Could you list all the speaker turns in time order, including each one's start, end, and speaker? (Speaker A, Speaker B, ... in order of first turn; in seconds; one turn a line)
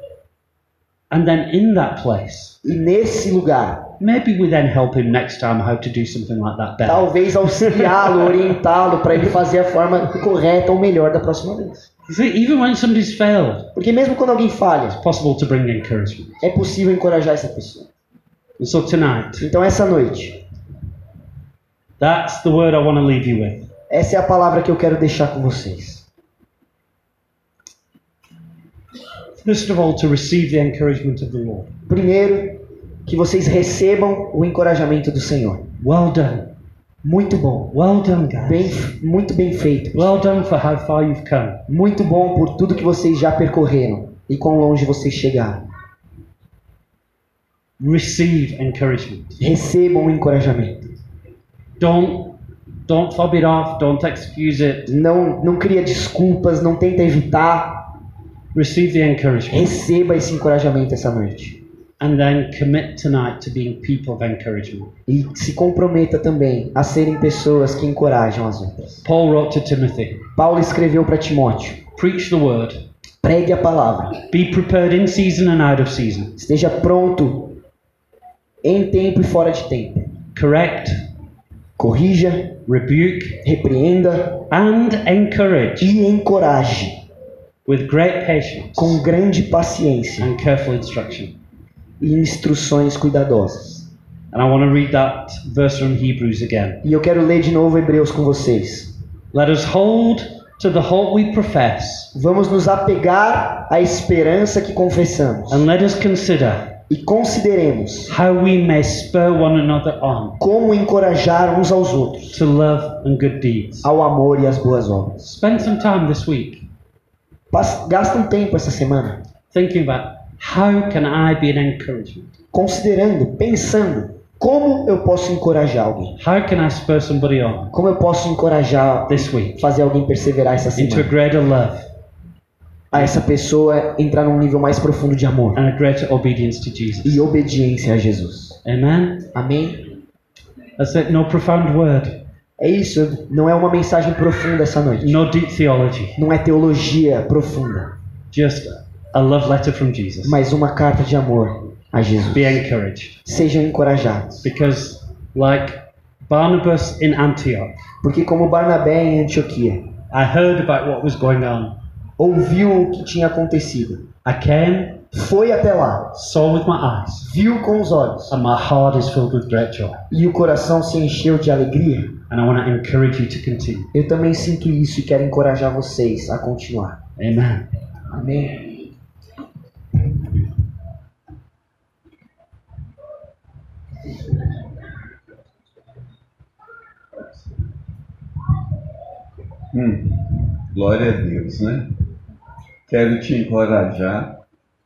Speaker A: 1.1-2.6
Speaker B: 2.6-3.9
Speaker A: 4.0-8.5
Speaker B: 6.8-11.9
Speaker A: 12.1-13.7
Speaker B: 13.8-15.0
Speaker A: 15.0-16.4
Speaker B: 16.4-17.9
Speaker A: 18.6-19.4
Speaker B: 19.4-20.4
Speaker A: 22.0-23.7
Speaker B: 23.9-26.1
Speaker A: 29.4-31.7
Speaker B: 31.9-35.7
Speaker A: 35.8-36.5
Speaker B: 37.0-37.8
Speaker A: 37.7-38.8
Speaker B: 38.4-40.1
Speaker A: 40.0-41.6
Speaker B: 41.7-45.6
Speaker A: 47.8-49.4
Speaker B: 49.4-50.9
Speaker A: 51.8-54.9
Speaker B: 54.9-57.9
Speaker A: 58.5-59.8
Speaker B: 59.5-61.6
Speaker A: 62.0-64.9
Speaker B: 65.1-69.0
Speaker A: 69.0-70.2
Speaker B: 70.4-71.8
Speaker A: 72.0-72.8
Speaker B: 73.2-74.2
Speaker A: 74.3-76.3
Speaker B: 76.4-77.6
Speaker B: 78.6-80.1
Speaker A: 80.3-81.0
Speaker B: 81.8-82.6
Speaker A: 82.7-83.4
Speaker B: 83.4-84.5
Speaker A: 84.5-85.9
Speaker B: 85.8-87.0
Speaker A: 87.7-89.0
Speaker B: 88.8-90.3
Speaker A: 90.2-91.4
Speaker B: 92.0-93.9
Speaker A: 94.3-96.8
Speaker B: 96.8-98.9
Speaker A: 99.3-102.1
Speaker B: 102.1-105.7
Speaker A: 105.5-106.8
Speaker B: 106.9-108.1
Speaker A: 108.1-110.4
Speaker B: 110.4-112.4
Speaker A: 112.3-113.9
Speaker B: 113.8-115.3
Speaker A: 115.2-116.7
Speaker B: 117.5-119.2
Speaker A: 119.5-122.3
Speaker B: 122.5-126.2
Speaker A: 126.2-127.7
Speaker B: 127.7-131.1
Speaker A: 129.1-129.6
Speaker A: 130.8-131.8
Speaker B: 132.9-135.6
Speaker A: 132.9-133.2
Speaker A: 135.6-137.2
Speaker B: 137.0-138.6
Speaker A: 138.6-139.3
Speaker B: 139.3-139.8
Speaker A: 140.8-142.2
Speaker B: 142.6-145.2
Speaker A: 145.0-146.2
Speaker B: 146.2-147.9
Speaker A: 148.3-150.4
Speaker B: 150.2-152.6
Speaker A: 152.3-153.2
Speaker B: 153.2-154.5
Speaker A: 154.4-157.8
Speaker B: 158.0-159.8
Speaker A: 160.1-161.8
Speaker B: 162.2-164.1
Speaker A: 164.2-165.0
Speaker B: 165.1-166.1
Speaker A: 166.1-167.3
Speaker B: 167.2-168.3
Speaker A: 168.3-170.0
Speaker B: 170.1-172.2
Speaker A: 172.3-173.9
Speaker B: 173.9-177.0
Speaker A: 177.2-177.7
Speaker B: 178.1-178.7
Speaker C: 189.7-191.9
Speaker C: 192.9-194.4